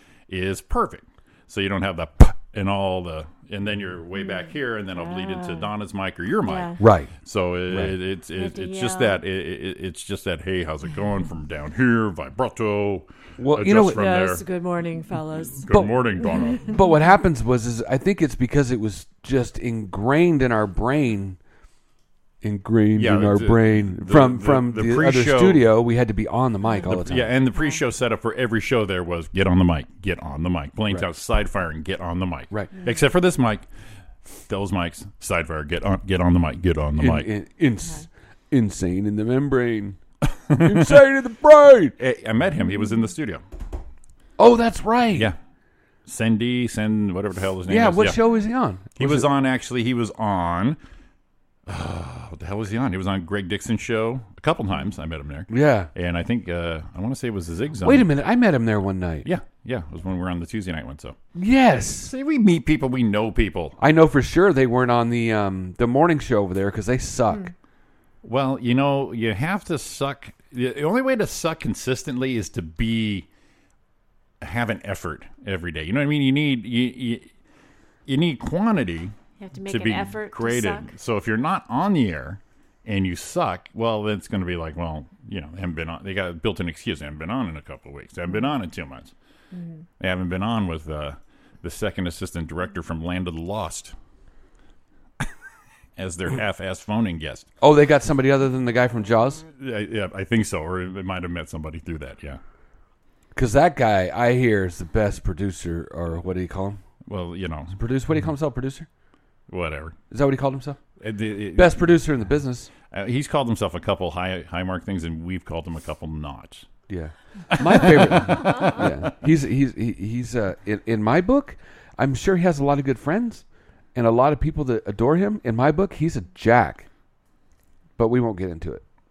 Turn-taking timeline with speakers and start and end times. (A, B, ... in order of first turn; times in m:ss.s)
0:00.3-0:14.4 A
0:04.2-0:05.7 B
0:06.4-0:06.8 B
0:06.8-0:07.1 C
0:07.7-0:07.9 C
0:08.4-0:09.2 B
0:13.4-0:14.0 C
0:13.8-0:15.6 B
0:15.6-0:16.6 A
0:15.7-0:21.4 C
0:16.3-0:16.9 B
0:22.4-0:27.3 C
0:23.0-0:25.6 A
0:26.8-0:33.6 A
0:34.3-0:37.3 A
0:37.0-0:40.0 C
0:40.5-0:41.0 A
0:40.6-0:41.9 C
0:42.0-0:43.4 A
0:44.4-0:45.3 C
0:46.0-0:48.2 A
0:47.7-0:49.3 C
0:49.0-0:50.8 A
0:51.6-0:58.1 A
0:55.5-0:55.9 C
0:57.8-0:59.3 C
0:59.2-1:01.2 A
1:01.4-1:02.1 C
1:02.0-1:03.8 A
1:03.8-1:07.5 C
1:08.2-1:13.2 A
1:14.4-1:17.3 A
1:18.0-1:19.1 A
1:19.4-1:20.9 B
1:19.7-1:29.1 A
1:29.5-1:29.8 B
1:30.0-1:33.9 A
1:36.0-1:37.5 A
1:37.6-1:39.4 C
1:39.6-1:42.4 A
1:43.3-1:46.8 C
1:47.1-1:47.8 A
1:47.7-1:48.9 C
1:49.5-1:50.0 A
1:50.1-1:50.8 C
1:51.0-1:52.0 A
1:51.5-1:52.7 C
1:52.9-1:56.7 A
1:56.9-2:03.4 C
1:57.6-1:58.9 A
2:03.9-2:06.9 C
2:08.0-2:08.8 C